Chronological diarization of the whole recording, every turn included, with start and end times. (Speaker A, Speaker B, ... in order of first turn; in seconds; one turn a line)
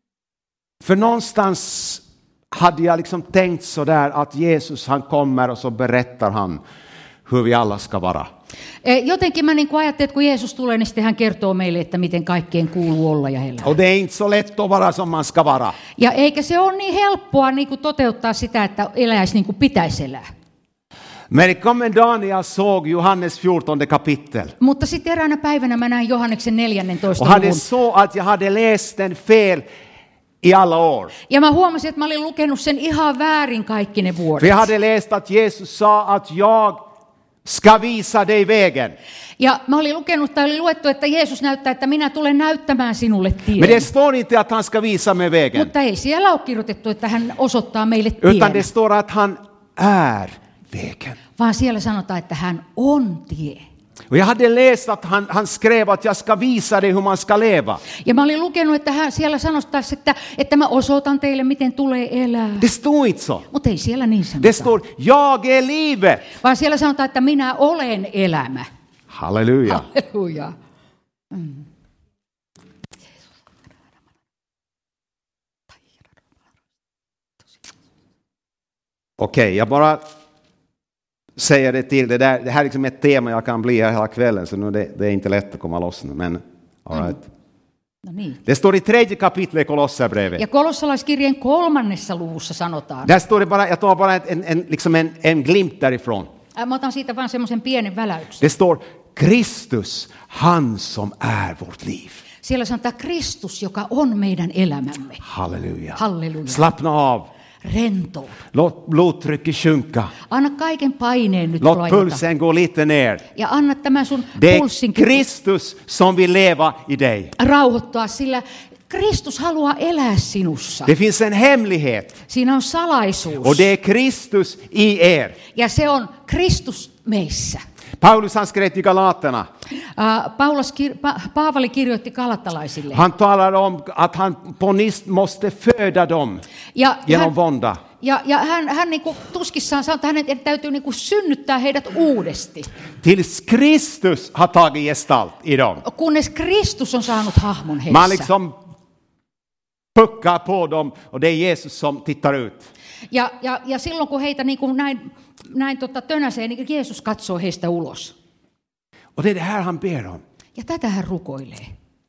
Speaker A: 0.8-6.6
Speaker A: 7.2-8.3
Speaker B: 8.8-13.7
Speaker A: 13.6-15.8
Speaker B: 16.0-20.2
Speaker A: 21.3-24.5
Speaker B: 24.6-27.6
Speaker A: 27.1-29.6
Speaker A: 30.4-31.1
Speaker B: 31.3-34.7
Speaker A: 34.4-36.8
Speaker A: 37.4-39.0
Speaker B: 39.4-43.9
Speaker A: 43.6-45.7
Speaker B: 45.5-48.7
Speaker A: 48.2-51.2
Speaker B: 51.4-53.6
Speaker A: 54.1-57.8
Speaker B: 58.0-62.7
Speaker A: 62.6-63.5
Speaker B: 63.5-64.7
Speaker A: 64.4-66.3
Speaker B: 66.3-68.7
Speaker A: 69.1-69.9
Speaker B: 69.7-70.5
Speaker B: 71.3-71.6
Speaker A: 79.2-80.0
Speaker A: 81.4-87.3
Speaker B: 88.0-88.4
Speaker A: 88.4-90.4
Speaker B: 90.4-93.1
Speaker A: 93.0-96.3
Speaker B: 96.5-98.5
Speaker A: 98.4-102.2
Speaker B: 102.4-105.2
Speaker A: 105.2-107.3
Speaker B: 106.0-106.6
Speaker B: 107.6-108.4
Speaker A: 108.5-110.1
Speaker B: 110.3-112.2
Speaker A: 111.6-113.2
Speaker B: 113.3-115.2
Speaker A: 114.3-117.3
Speaker B: 117.4-120.9
Speaker A: 120.8-122.2
Speaker B: 122.3-123.7
Speaker A: 123.4-125.4
Speaker B: 125.5-127.6
Speaker A: 128.0-129.5
Speaker B: 129.8-133.0
Speaker A: 132.9-136.4
Speaker B: 136.7-137.3
Speaker A: 137.1-137.8
Speaker B: 138.0-142.7
Speaker A: 143.0-145.8
Speaker B: 145.8-148.3
Speaker A: 147.9-148.6
Speaker A: 149.9-152.7
Speaker B: 153.1-158.1
Speaker A: 159.2-160.2
Speaker B: 160.6-161.7